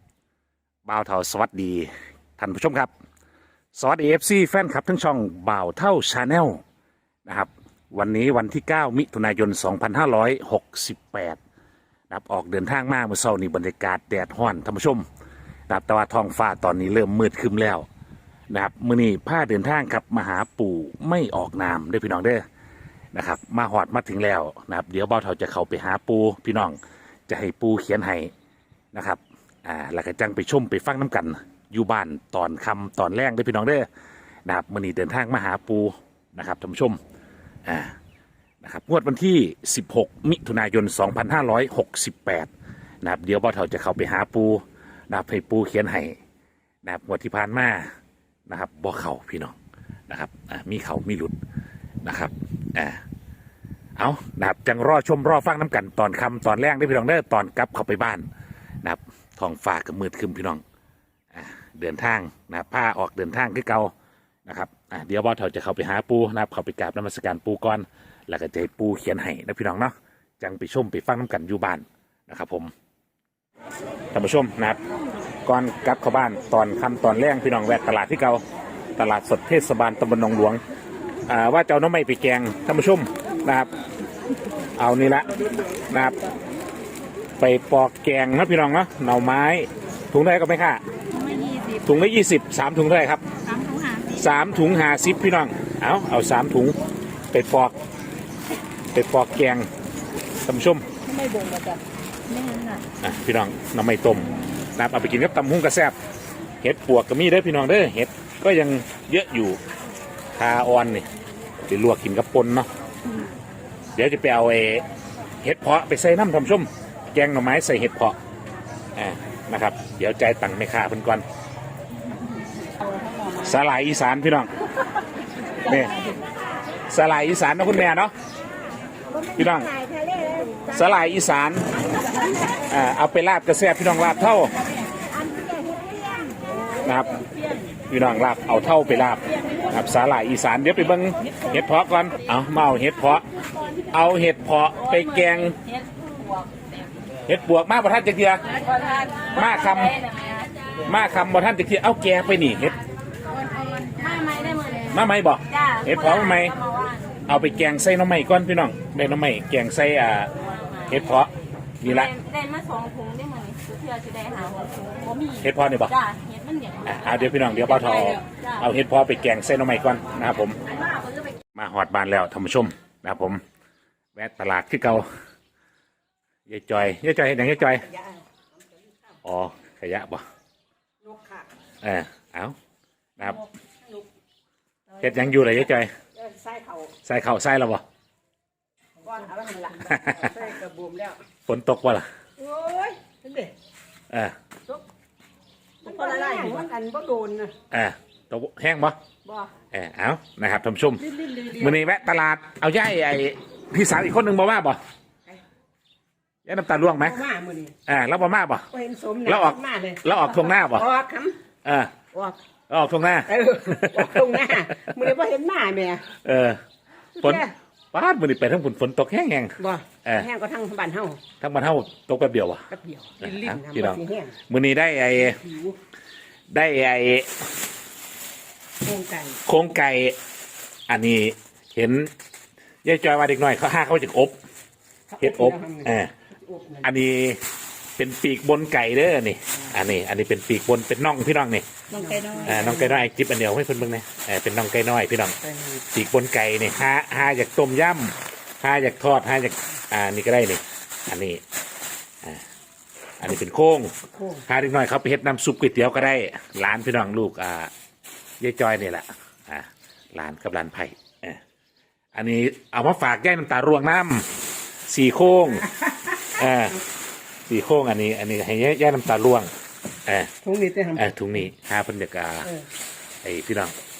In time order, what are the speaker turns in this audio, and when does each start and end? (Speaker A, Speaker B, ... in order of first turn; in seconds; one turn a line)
Speaker A: 0.8-2.9
Speaker A: 3.7-6.6
Speaker A: 7.2-11.4
Speaker A: 12.1-15.0
Speaker A: 15.7-17.9
Speaker A: 18.5-22.4
Speaker A: 23.1-28.3
Speaker A: 28.9-33.9
Speaker A: 34.5-37.0
Speaker A: 37.6-37.9
Speaker A: 38.6-42.5
Speaker A: 43.0-46.1
Speaker A: 46.8-47.9
Speaker A: 48.5-49.5
Speaker A: 50.1-51.4
Speaker A: 52.0-53.0
Speaker A: 54.0-58.2
Speaker A: 58.8-60.6
Speaker A: 61.3-63.9
Speaker A: 64.5-72.7
Speaker A: 74.1-74.8
Speaker A: 75.4-78.4
Speaker A: 79.0-80.6
Speaker A: 81.3-83.7
Speaker A: 84.7-85.3
Speaker A: 85.9-86.2
Speaker A: 87.4-90.8
Speaker B: 91.1-91.8
Speaker A: 91.8-93.2
Speaker B: 93.4-94.1
Speaker A: 94.1-96.8
Speaker A: 97.3-97.7
Speaker A: 98.9-99.7
Speaker A: 100.4-100.8
Speaker B: 101.0-102.8
Speaker A: 103.0-105.9
Speaker A: 106.6-109.6
Speaker A: 110.4-111.1
Speaker A: 111.7-112.7
Speaker A: 113.9-114.8
Speaker A: 115.4-118.2
Speaker A: 119.0-121.2
Speaker B: 122.5-123.5
Speaker A: 123.3-124.5
Speaker A: 125.6-126.1
Speaker B: 125.6-126.2
Speaker A: 126.9-128.1
Speaker A: 129.3-129.8
Speaker C: 129.8-130.6
Speaker A: 130.6-131.7
Speaker A: 132.7-134.6
Speaker A: 136.8-137.2
Speaker B: 137.1-137.7
Speaker A: 137.9-143.2
Speaker A: 143.9-145.6
Speaker B: 144.8-146.5
Speaker A: 147.2-148.5
Speaker B: 148.5-150.5
Speaker A: 149.3-150.0
Speaker A: 150.8-152.8
Speaker B: 153.3-157.2
Speaker A: 154.9-156.6
Speaker A: 157.3-160.3
Speaker B: 160.5-160.9
Speaker A: 160.8-162.1
Speaker B: 161.8-168.6
Speaker A: 165.4-166.0
Speaker A: 166.8-170.6
Speaker A: 171.5-173.4
Speaker A: 174.1-175.1
Speaker A: 176.5-177.8
Speaker C: 177.7-179.0
Speaker A: 179.2-180.2
Speaker C: 181.0-181.5
Speaker A: 181.8-182.5
Speaker A: 183.2-183.4
Speaker C: 183.3-184.1
Speaker C: 184.9-185.5
Speaker A: 185.0-185.9
Speaker C: 186.1-186.9
Speaker A: 187.0-187.8
Speaker C: 189.0-191.2
Speaker A: 189.8-190.3
Speaker A: 191.4-192.1
Speaker C: 192.4-193.5
Speaker A: 194.1-194.3
Speaker B: 195.8-196.7
Speaker C: 195.8-197.5
Speaker A: 197.7-199.0
Speaker C: 199.2-199.5
Speaker A: 199.7-204.8
Speaker B: 201.1-201.7
Speaker A: 206.4-207.2
Speaker C: 206.9-207.7
Speaker A: 207.8-208.7
Speaker C: 208.7-211.4
Speaker A: 209.2-210.8
Speaker A: 211.6-211.9
Speaker C: 212.1-212.4
Speaker A: 212.7-214.4
Speaker C: 213.2-216.0
Speaker A: 216.1-216.6
Speaker C: 217.2-217.5
Speaker A: 217.2-220.3
Speaker C: 219.6-221.2
Speaker A: 221.4-222.7
Speaker C: 222.7-224.3
Speaker A: 223.2-225.4
Speaker C: 225.3-225.8
Speaker A: 226.5-227.4
Speaker C: 228.8-229.4
Speaker A: 229.4-230.2
Speaker A: 230.9-232.1
Speaker A: 232.8-234.4
Speaker C: 235.1-236.9
Speaker A: 235.2-236.1
Speaker A: 236.8-237.4
Speaker A: 238.0-241.7
Speaker B: 241.9-242.8
Speaker C: 241.9-243.0
Speaker A: 242.4-245.3
Speaker C: 245.4-245.8
Speaker A: 245.9-251.4
Speaker A: 253.2-253.9
Speaker C: 254.1-254.4
Speaker A: 254.4-257.7
Speaker A: 258.4-261.4
Speaker A: 262.1-264.3
Speaker A: 264.9-265.7
Speaker C: 265.7-266.2
Speaker A: 266.3-266.8
Speaker A: 267.5-269.5
Speaker A: 270.1-270.3
Speaker C: 270.4-271.1
Speaker A: 270.9-272.5
Speaker A: 273.2-273.7